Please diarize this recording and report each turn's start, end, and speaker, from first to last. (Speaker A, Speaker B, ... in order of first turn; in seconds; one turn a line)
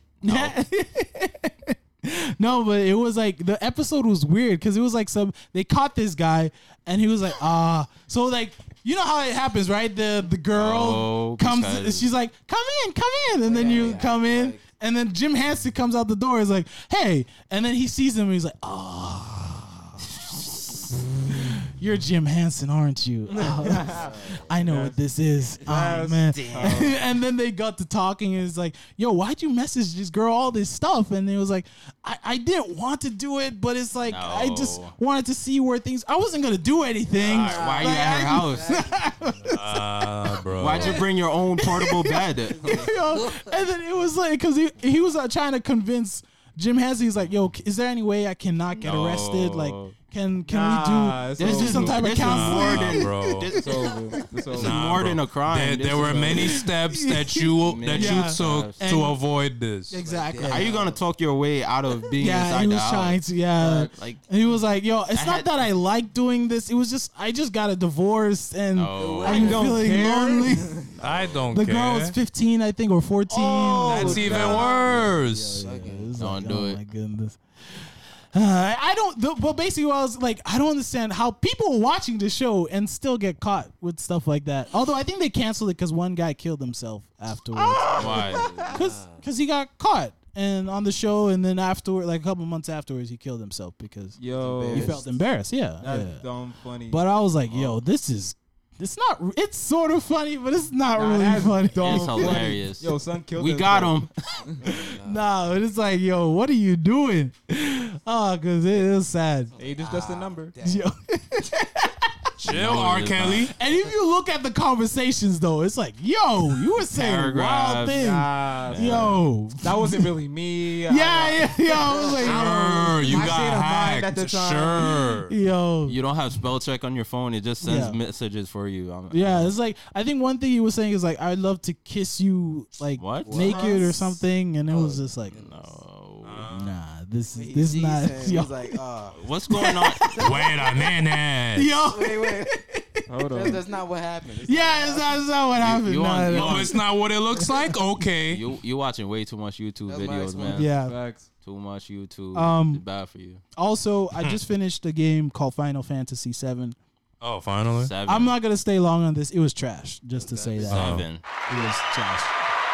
Speaker A: 0.2-0.6
Speaker B: 0.2-53.1
Speaker A: 10.5-12.1
Speaker C: 13.4-14.6
Speaker D: 23.3-25.0
Speaker C: 23.6-24.5
Speaker D: 25.6-27.0
Speaker A: 34.0-34.9
Speaker A: 37.2-38.8
Speaker C: 37.2-39.6
Speaker E: 39.5-41.0
Speaker A: 40.6-42.9
Speaker C: 42.6-43.5
Speaker A: 48.8-49.9
Speaker D: 50.5-52.3
Speaker A: 51.4-54.0
Speaker E: 52.2-53.5
Speaker D: 53.5-54.8
Speaker A: 54.5-56.6
Speaker E: 54.5-60.0
Speaker B: 56.3-59.2
Speaker A: 57.6-59.0
Speaker B: 59.9-60.8
Speaker C: 60.0-61.0
Speaker A: 60.4-64.2
Speaker B: 62.2-70.8
Speaker A: 65.2-65.5
Speaker A: 68.7-69.9
Speaker C: 69.0-70.1
Speaker D: 69.2-70.8
Speaker A: 71.0-71.5
Speaker E: 71.0-72.2
Speaker B: 71.5-94.2
Speaker D: 73.3-75.1
Speaker E: 73.8-75.6
Speaker C: 74.1-76.2
Speaker A: 76.2-76.8
Speaker D: 87.5-88.7
Speaker C: 87.8-89.2
Speaker A: 88.0-88.5
Speaker D: 94.2-95.0
Speaker C: 94.2-95.0
Speaker B: 94.7-96.2
Speaker D: 95.8-97.0
Speaker B: 96.9-102.5
Speaker A: 97.5-97.8
Speaker D: 100.9-104.6
Speaker A: 101.8-104.2
Speaker C: 104.6-105.3
Speaker B: 104.9-109.5
Speaker C: 109.6-110.9
Speaker D: 109.6-110.5
Speaker B: 110.6-112.1
Speaker E: 112.4-113.5
Speaker A: 112.4-113.5
Speaker B: 113.5-120.1
Speaker A: 116.8-118.0
Speaker D: 117.9-125.0
Speaker A: 118.7-119.2
Speaker B: 120.9-123.6
Speaker C: 121.9-122.2
Speaker E: 122.2-125.3
Speaker B: 125.3-126.0
Speaker A: 125.9-129.5
Speaker B: 127.6-128.0
Speaker B: 129.1-135.4
Speaker A: 133.0-133.7
Speaker C: 133.2-135.8
Speaker A: 135.3-136.4
Speaker E: 136.2-136.8
Speaker B: 136.5-138.8
Speaker C: 137.3-139.2
Speaker A: 139.2-140.1
Speaker B: 139.5-140.9
Speaker C: 140.0-140.5
Speaker E: 140.2-141.8
Speaker B: 141.5-143.6
Speaker C: 141.8-142.6
Speaker D: 143.1-143.6
Speaker C: 143.3-145.2
Speaker B: 144.4-146.8
Speaker A: 145.6-146.8
Speaker E: 146.3-148.4
Speaker B: 147.4-147.7
Speaker A: 148.3-150.7
Speaker C: 149.9-150.7
Speaker B: 150.5-151.0
Speaker D: 150.7-151.3
Speaker A: 151.4-153.4
Speaker B: 152.3-152.8
Speaker B: 153.6-156.8
Speaker E: 157.2-157.9
Speaker A: 157.8-158.3
Speaker B: 158.1-162.3
Speaker C: 160.2-160.9
Speaker A: 160.7-161.2
Speaker E: 160.7-161.1